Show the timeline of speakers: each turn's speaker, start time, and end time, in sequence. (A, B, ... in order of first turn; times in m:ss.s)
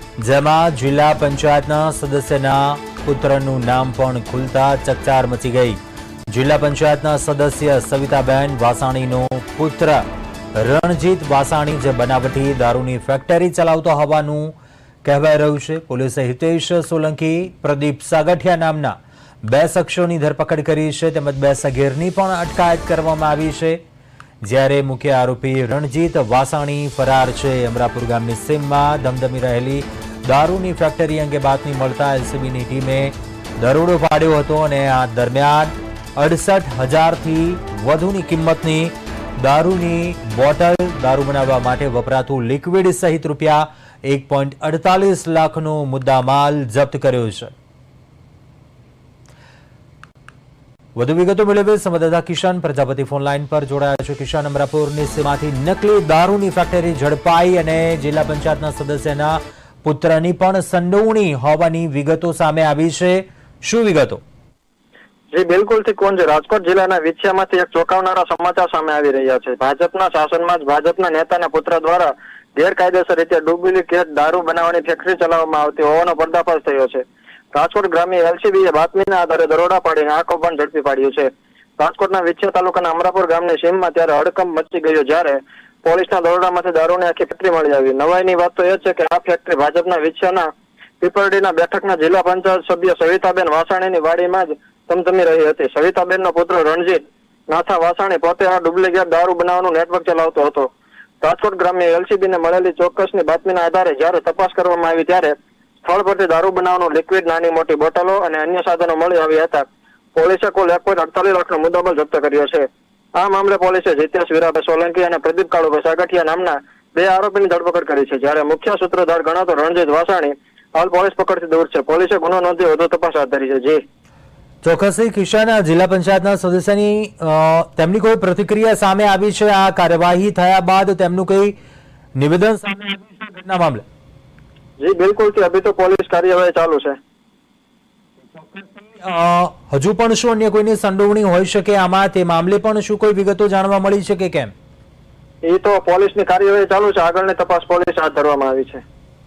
0:00.2-0:23.8 A
0:24.4-0:47.5 A
0:51.0-1:04.2 A
1:05.3-1:30.5 B
1:31.0-2:03.8 B
2:04.6-2:11.5 A
2:12.2-2:13.8 A
2:14.8-2:17.0 B
2:18.4-2:24.5 A
2:25.5-2:28.8 B